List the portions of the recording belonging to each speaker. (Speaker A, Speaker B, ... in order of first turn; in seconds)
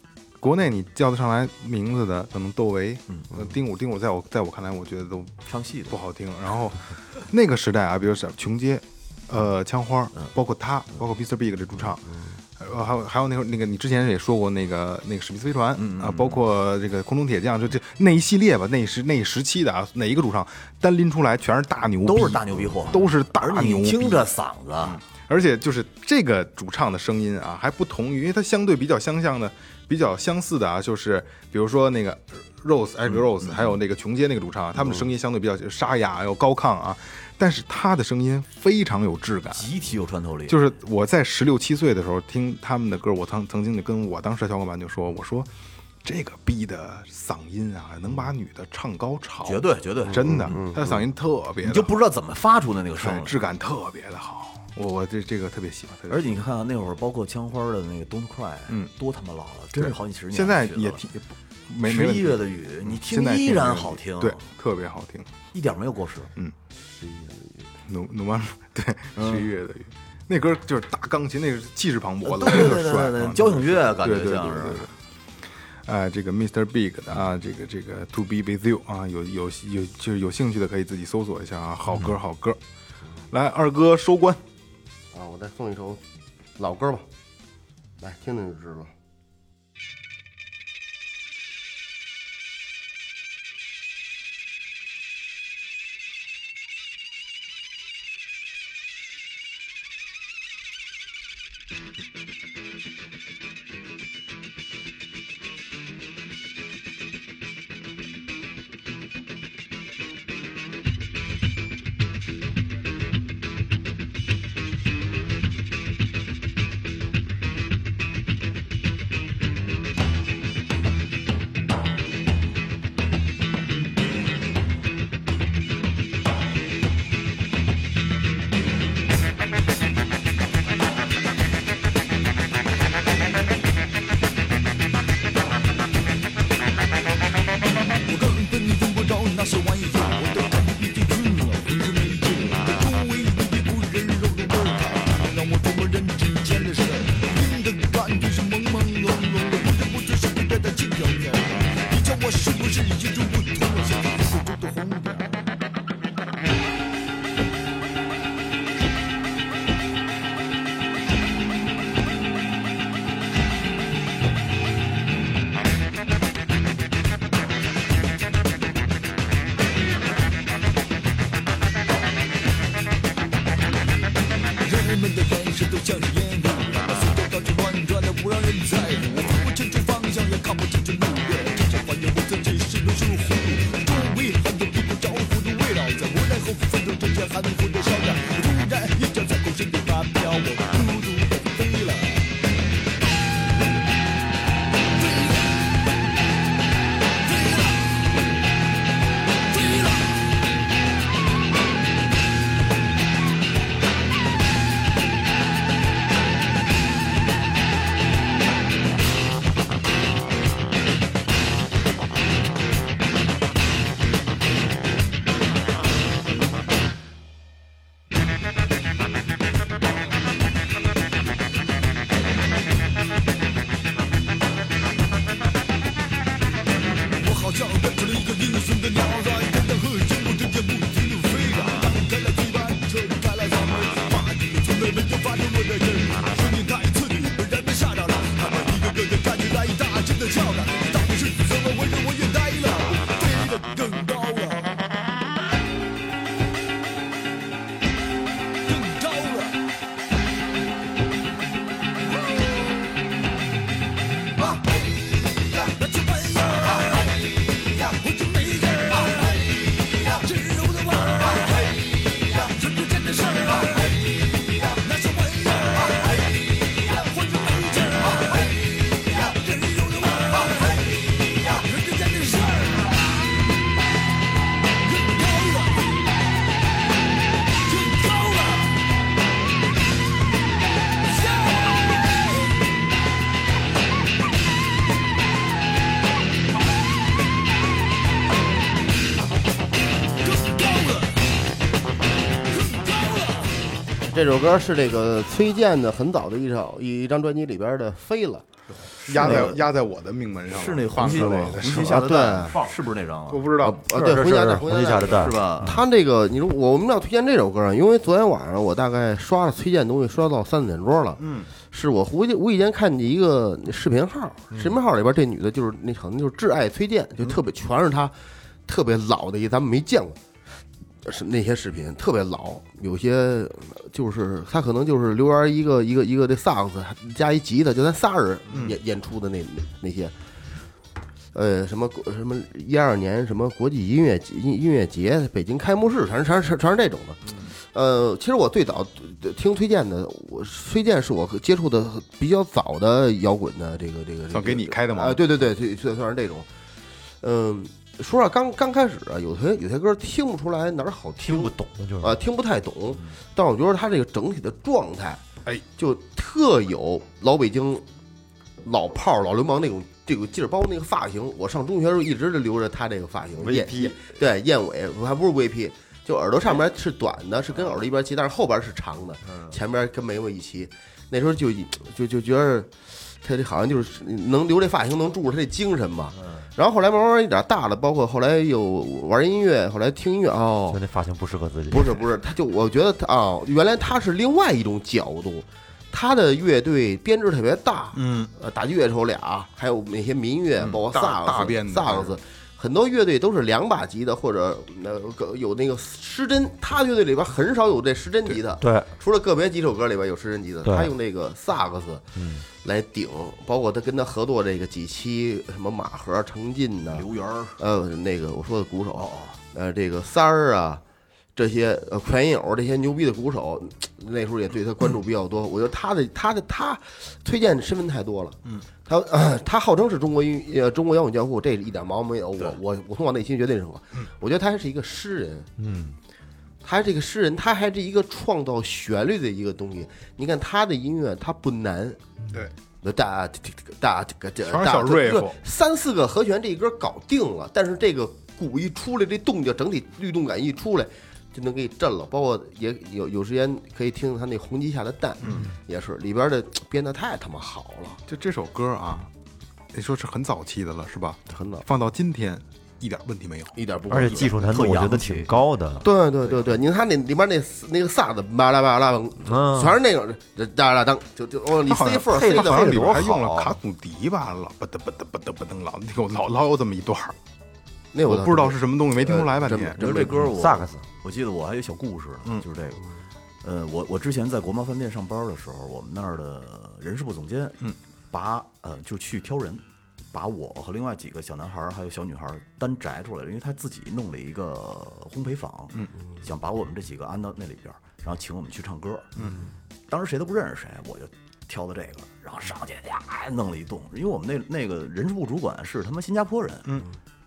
Speaker A: 0.4-24.3, 24.8-39.7, 40.5-45.5, 46.0-51.9, 53.0-56.3, 59.8-65.3, 67.9-74.9, 75.9-82.6, 83.3-84.4, 299.0-302.7, 303.3-303.8, 328.5-328.8, 344.3-345.2, 387.9-388.3, 390.7-392.2, 434.4-435.4, 448.1-449.1, 449.7-453.6, 461.7-467.2, 468.0-469.8
Speaker B: 5.5-6.0, 15.8-16.4, 22.0-25.0, 33.1-33.8, 39.5-40.7, 49.4-50.6, 51.6-53.4, 56.1-61.0, 61.8-64.4, 65.5-66.3, 69.2-69.5, 72.2-74.9, 299.0-299.6, 300.5-303.5, 304.8-305.8, 406.9-407.6, 408.9-409.4, 454.3-455.4, 469.8-472.8, 473.4-489.1, 489.9-496.8
Speaker C: 50.2-50.9, 67.0-67.4, 85.1-86.0, 86.6-87.0, 88.0-88.9, 294.1-298.5, 301.1-302.6, 303.6-311.2, 311.7-318.1, 318.7-320.2, 321.1-330.1, 331.3-346.5, 347.2-355.2, 355.8-357.9, 358.6-380.8, 381.7-402.1, 402.6-407.1, 407.6-410.8, 411.4-425.5, 426.6-432.0, 432.8-448.0, 451.3-451.7, 453.6-454.4, 455.8-462.9, 467.9-470.3
Speaker D: 138.1-155.4, 174.6-192.3, 195.0-195.5, 197.2-197.8, 199.5-199.9, 227.2-244.7, 248.6-249.6, 255.7-273.1, 274.8-276.0, 277.6-278.7, 290.2-291.2, 292.5-293.5
Speaker E: 303.8-305.8, 351.2-352.2, 363.4-364.0, 376.2-376.4, 380.7-382.0, 398.6-398.9, 400.6-400.9, 402.2-402.5, 425.6-425.9, 453.9-455.9, 459.3-459.8, 462.1-463.6, 470.0-470.8